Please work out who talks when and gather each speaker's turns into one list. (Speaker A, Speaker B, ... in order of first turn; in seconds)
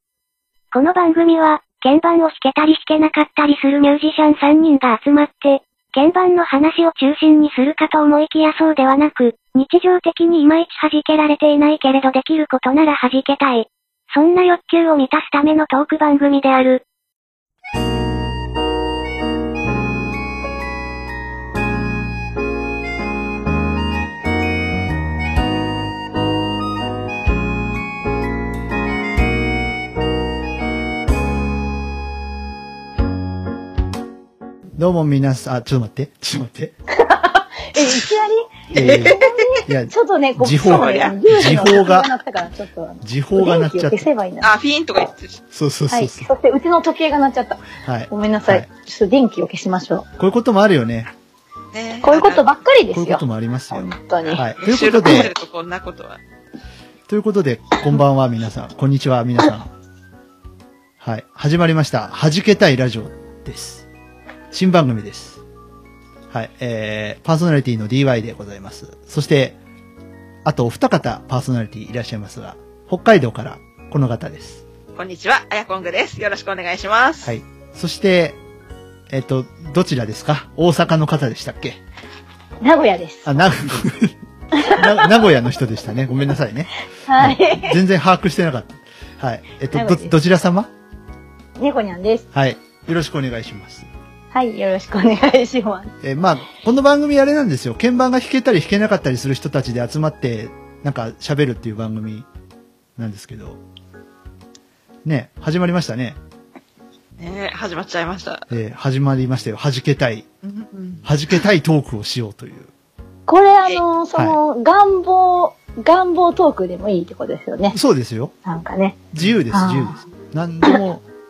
Speaker A: 0.7-16.8
Speaker B: 34.8-36.8, 38.7-42.1, 43.0-44.1, 45.5-46.3, 47.8-48.7, 50.2-51.1, 52.9-55.3, 57.1-59.7, 61.0-63.9, 64.5-65.4, 66.3-69.6, 70.5-74.6, 77.2-78.4, 79.1-81.8, 83.3-84.2, 84.7-90.7, 92.3-93.9, 96.0-102.3, 103.0-103.6, 105.0-106.2, 108.5-110.3, 111.0-112.7, 117.7-118.3, 119.1-121.0
Speaker C: 36.9-44.5, 45.9-50.1, 52.0-54.5, 82.6-83.3, 84.5-85.0, 87.1-87.8, 89.7-90.1, 91.6-92.2, 94.3-95.9, 113.3-117.8, 118.5-119.0, 119.5-120.0
Speaker D: 38.8-39.6, 40.6-41.2, 44.4-45.4, 51.7-52.5, 54.4-56.2, 75.0-77.3, 107.2-108.5, 110.4-111.1